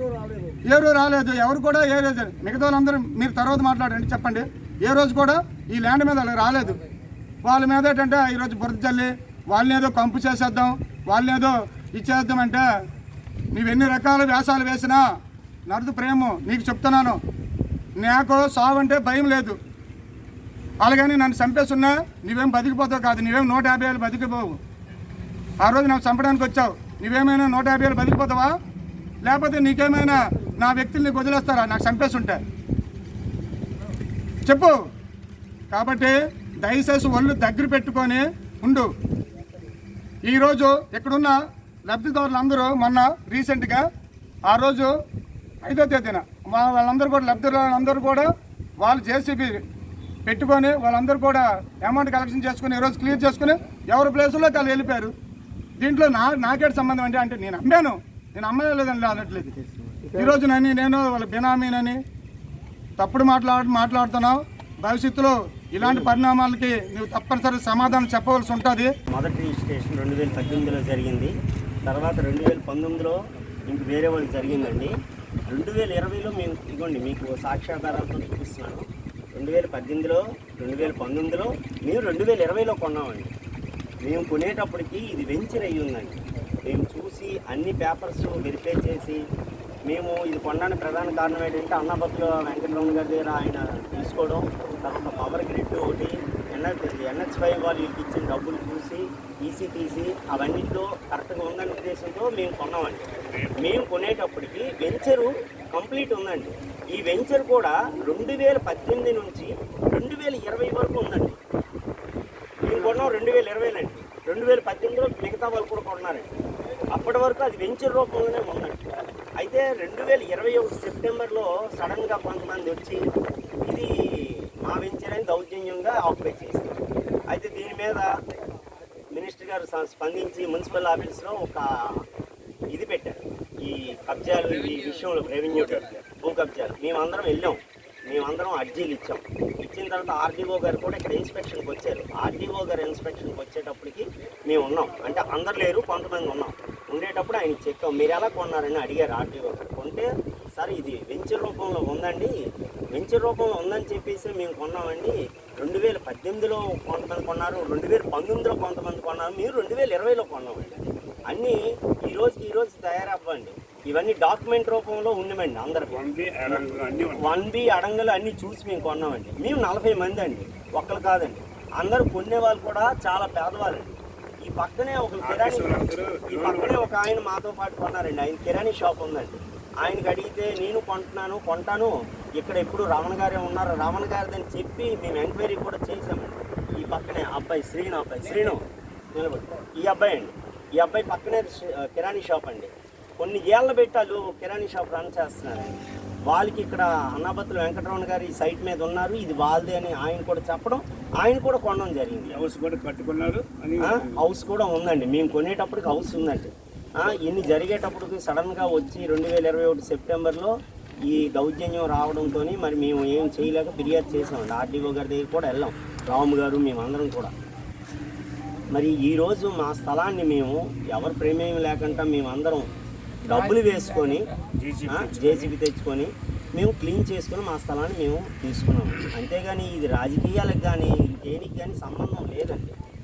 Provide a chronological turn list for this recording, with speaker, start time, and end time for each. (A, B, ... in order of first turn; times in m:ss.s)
0:00.7-0:06.8 A
0:07.4-0:12.6 A
0:13.5-0:15.0 A
0:15.7-0:17.2 A
0:18.0-0:19.6 A
0:20.8-0:24.6 A
0:25.6-0:28.5 A
0:29.2-0:32.4 A
0:34.4-0:34.8 A
0:35.7-0:38.9 A
0:40.3-0:41.4 A
0:41.9-0:43.9 A
0:44.5-0:44.9 A
0:45.6-0:48.3 A
0:48.8-0:49.6 A
0:50.3-0:55.1 A
0:55.8-1:02.0 A
1:03.0-1:08.9 A
1:09.1-1:11.3 B
1:11.8-1:15.0 B
1:15.5-1:23.3 B
1:24.0-1:29.2 B
1:29.9-1:51.4 B
1:43.3-1:43.6 C
1:52.6-1:56.3 B
1:56.9-2:03.0 B
2:03.7-2:06.8 B
2:07.3-2:08.1 B
2:09.1-2:11.6 B
2:12.7-2:32.3 B
2:14.5-2:16.0 C
2:32.9-2:40.8 B
2:41.3-3:08.6 B
2:45.9-2:47.4 C
2:55.2-2:57.0 C
3:09.2-3:22.5 B
3:22.3-3:24.2 C
3:23.8-3:30.6 B
3:31.1-3:37.3 B
3:38.7-3:42.7 B
3:43.2-3:44.3 B
3:44.6-3:45.5 C
3:44.9-3:52.7 B